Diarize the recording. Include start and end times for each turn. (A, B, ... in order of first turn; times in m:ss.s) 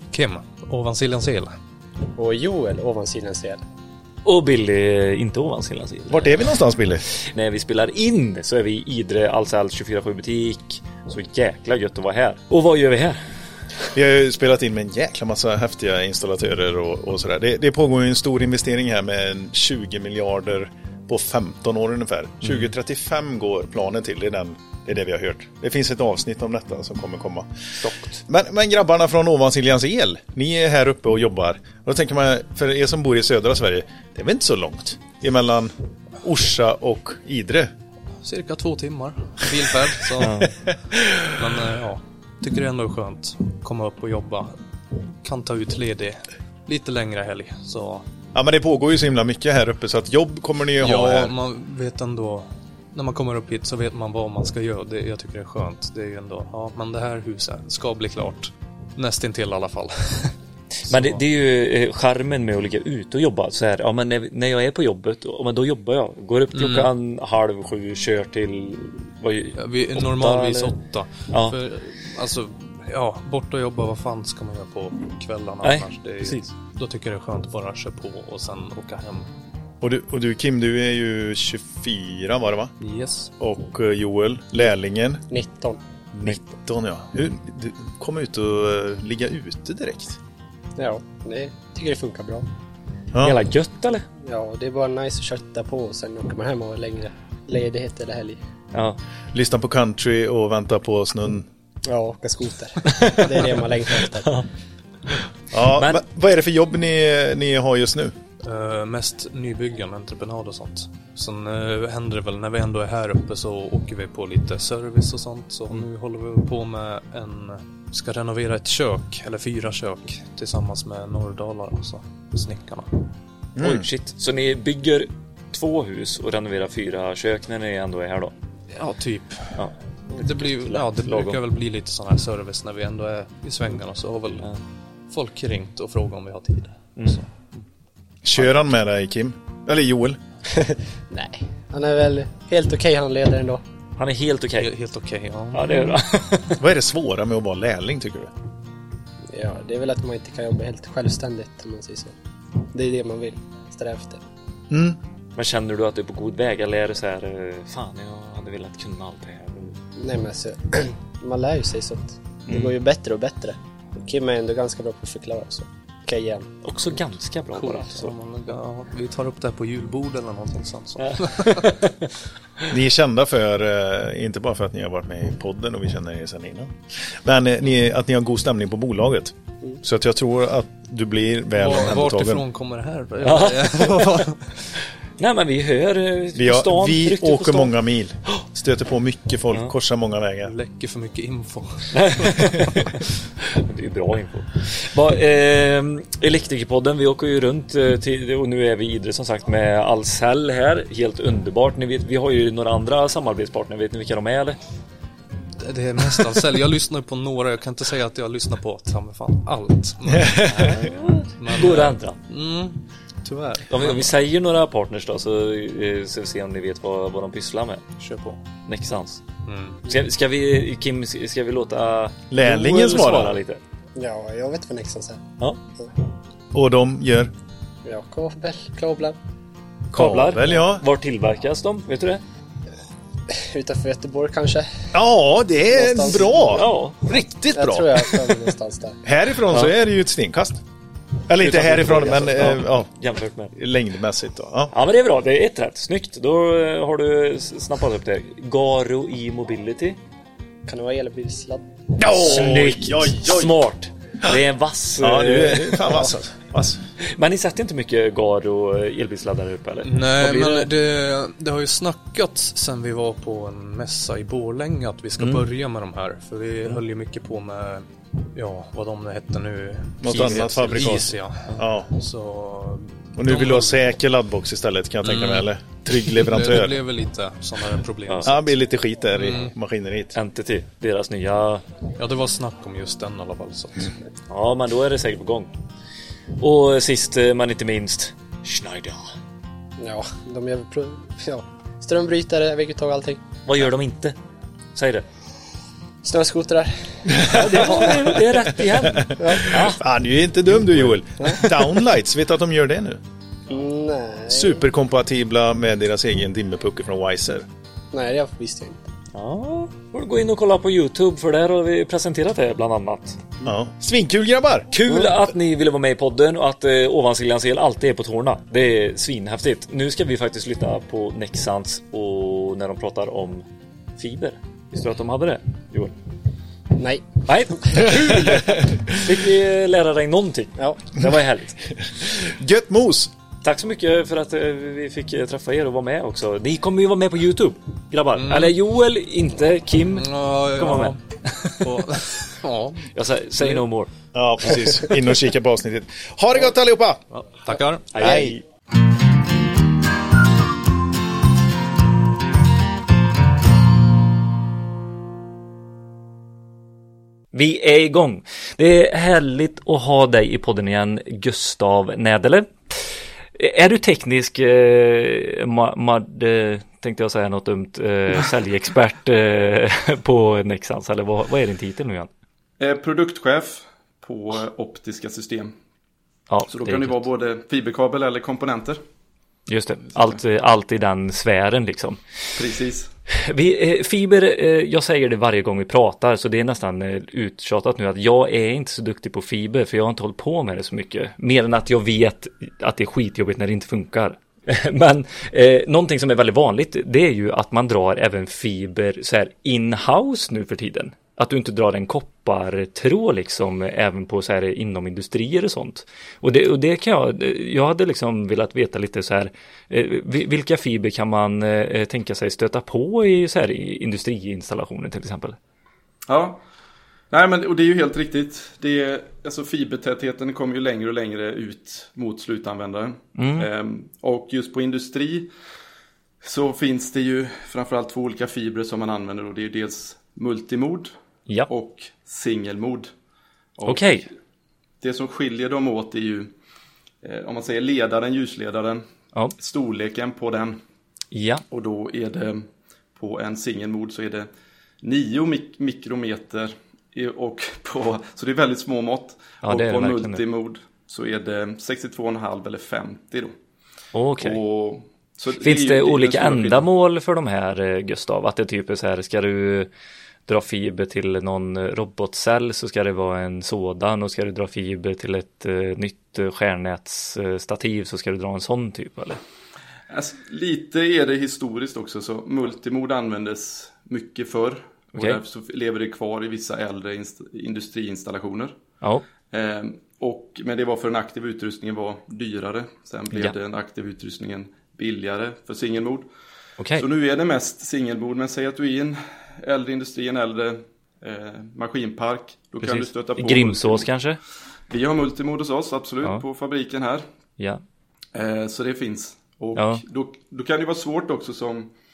0:00.1-0:01.5 A
0:02.1-0:03.6 B
0:04.2-0:06.5 C
0:06.1-0:07.0 D
0:07.2-0:13.2 C
0:13.9-0:27.5 D
0:22.4-0:22.7 C
0:27.8-0:28.2 C
0:28.3-0:37.7 D
0:38.2-0:40.5 A
0:40.2-0:40.5 C
0:41.4-0:44.6 A
0:45.2-0:48.1 A
0:48.3-0:51.3 D
0:50.8-1:00.3 A
1:00.9-1:01.2 A
1:00.9-1:10.8 C
1:06.5-1:06.9 A
1:09.6-1:19.3 A
1:11.3-1:11.6 C
1:15.6-1:16.5 C
1:19.8-1:22.7 D
1:22.8-1:23.3 A
1:23.4-1:25.2 D
1:25.3-1:25.8 B
1:26.1-1:30.2 D
1:30.8-1:32.5 B
1:33.1-1:33.4 D
1:33.2-1:34.0 C
1:34.2-1:38.4 B
1:39.3-1:41.5 D
1:41.9-1:44.3 B
1:42.9-1:44.5 C
1:45.5-1:48.2 D
1:45.6-1:46.0 C
1:48.4-2:03.0 A
2:03.6-2:03.9 D
2:03.6-2:08.3 C
2:08.7-2:09.6 A
2:09.6-2:11.4 C
2:10.2-2:14.5 A
2:15.1-2:17.3 A
2:18.2-2:20.2 D
2:20.6-2:23.6 B
2:24.0-2:24.7 C
2:24.6-2:26.0 A
2:25.5-2:26.6 C
2:26.6-2:28.3 D
2:29.3-2:32.1 B
2:32.7-2:34.2 B
2:34.7-2:35.0 D
2:35.4-2:39.8 C
2:40.0-2:46.5 B
2:42.5-2:42.7 C
2:46.6-2:48.1 C
2:47.6-2:51.7 A
2:51.0-2:52.1 C
2:52.7-3:02.4 D
3:01.6-3:04.5 A
3:03.2-3:04.1 C
3:05.2-3:07.7 C
3:06.4-3:10.6 D
3:10.4-3:13.0 A
3:11.9-3:24.6 C
3:25.6-3:30.5 A
3:30.1-3:30.8 D
3:30.5-3:32.2 C
3:31.4-3:34.1 A
3:33.7-3:37.9 C
3:38.0-3:38.4 A
3:38.7-3:39.2 C
3:39.5-3:39.8 A
3:39.9-3:43.6 C
3:42.3-3:43.4 D
3:44.0-3:45.2 B
3:46.5-3:47.3 D
3:47.8-3:49.2 B
3:49.9-3:50.8 D
3:49.9-3:52.2 C
3:53.3-3:54.9 B
3:54.9-3:58.5 D
3:55.7-3:56.6 B
3:56.5-3:57.0 C
3:57.5-3:59.0 B
3:59.0-4:00.6 D
4:01.3-4:02.9 D
4:01.4-4:03.6 C
4:03.6-4:04.7 D
4:04.7-4:10.0 C
4:10.7-4:11.9 B
4:12.0-4:13.6 D
4:12.2-4:16.0 C
4:15.0-4:16.8 D
4:17.0-4:20.7 C
4:19.8-4:33.9 A
4:25.2-4:25.5 C
4:30.0-4:31.9 D
4:30.1-4:31.0 C
4:33.2-4:36.8 D
4:35.0-4:38.6 A
4:38.1-4:38.3 C
4:38.2-4:40.2 D
4:39.2-4:39.5 A
4:40.2-4:41.6 C
4:42.0-4:43.9 A
4:44.3-4:45.5 C
4:46.4-4:49.0 C
4:49.8-4:53.2 B
4:53.4-4:54.2 C
4:54.8-4:55.0 C
4:56.0-4:58.2 B
4:57.1-4:57.5 D
4:57.3-4:59.8 C
4:58.8-5:03.0 D
4:59.2-4:59.6 B
5:03.5-5:04.6 B
5:04.3-5:07.5 D
5:07.9-5:08.8 B
5:09.1-5:13.2 C
5:13.4-5:15.2 D
5:14.7-5:23.4 C
5:24.0-5:26.0 C
5:26.8-5:27.1 B
5:27.3-5:31.6 C
5:27.6-5:28.0 B
5:32.0-5:33.1 D
5:33.4-5:41.5 C
5:38.1-5:38.6 A
5:40.0-5:41.0 A
5:41.6-5:42.9 A
5:42.9-5:43.9 C
5:43.4-5:43.6 A
5:44.1-5:47.0 D
5:47.1-5:48.0 A
5:47.9-5:48.4 C
5:48.0-5:48.4 D
5:57.3-6:12.1 C
6:12.6-6:15.5 E
6:16.3-6:17.0 C
6:16.5-6:18.8 E
6:19.5-6:22.0 C
6:19.9-6:20.2 E
6:22.4-6:22.9 E
6:23.2-6:55.4 C
6:56.1-6:56.4 E
6:57.1-7:05.3 E
7:03.2-7:03.5 C
7:06.2-7:10.9 E
7:11.5-7:12.9 E
7:13.6-7:14.1 E
7:13.7-7:14.1 C
7:14.8-7:16.3 E
7:17.0-7:18.8 E
7:19.4-7:20.6 E
7:21.1-7:21.4 C
7:21.5-7:24.3 E
7:24.8-7:33.3 E
7:29.4-7:30.2 C
7:33.9-7:34.4 C
7:34.2-7:36.7 E
7:35.4-7:39.7 C
7:40.3-7:49.2 C
7:49.9-7:58.5 E
7:59.3-8:06.1 E
8:06.6-8:06.9 C
8:06.8-8:13.9 E
8:12.6-8:14.2 C
8:14.7-8:17.0 E
8:18.1-8:21.7 E
8:19.6-8:19.8 C